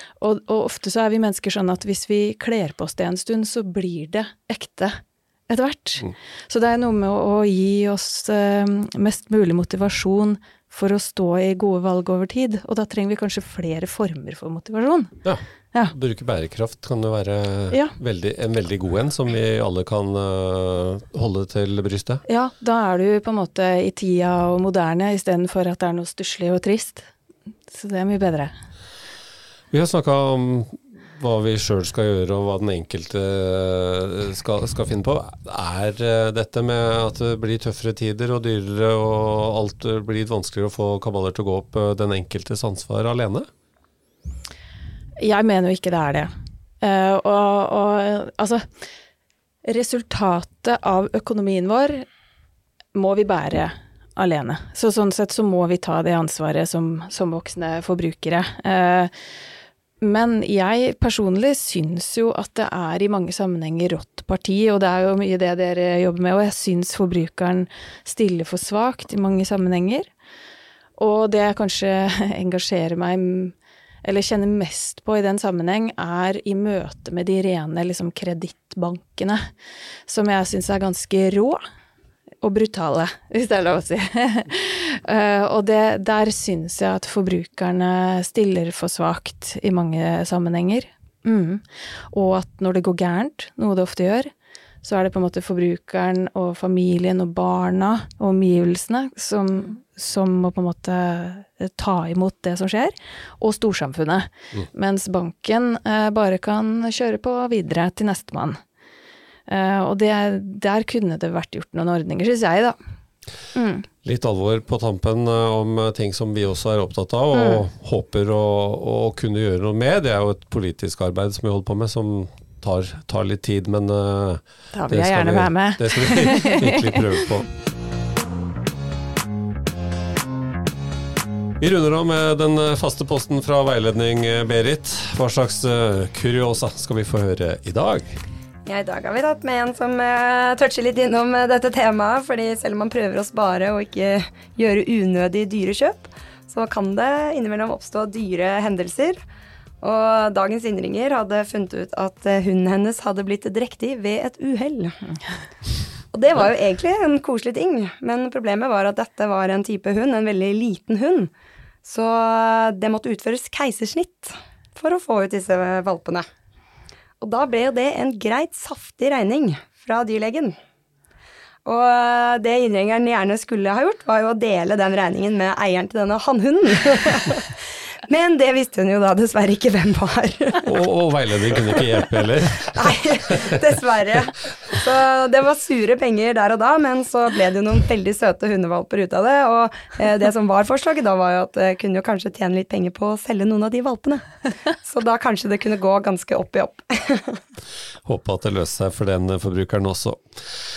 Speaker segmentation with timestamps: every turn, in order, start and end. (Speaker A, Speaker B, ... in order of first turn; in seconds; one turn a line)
Speaker A: 0.2-15.2
Speaker B: 15.2-22.2
Speaker A: 22.3-27.1
Speaker A: 27.7-28.5
Speaker B: 29.7-43.5
Speaker A: 45.2-46.3
Speaker A: 46.8-48.6
Speaker A: 49.6-52.0
Speaker A: 52.9-59.1
Speaker A: 60.0-70.1
Speaker A: 71.0-79.5
Speaker A: 80.1-81.6
Speaker A: 82.4-94.3
Speaker A: 94.8-108.6
Speaker A: 109.5-112.8
Speaker A: 113.5-113.9
Speaker B: 114.0-127.5
Speaker A: 117.3-117.6
Speaker A: 124.7-127.0
Speaker B: 131.6-138.2
Speaker C: 138.7-149.2
Speaker C: 149.8-155.0
Speaker C: 156.1-161.3
Speaker C: 161.8-166.2
Speaker C: 167.2-170.6
Speaker C: 171.6-180.7
Speaker B: 180.6-183.4
Speaker C: 182.6-194.2
Speaker C: 194.8-197.4
Speaker B: 198.1-200.4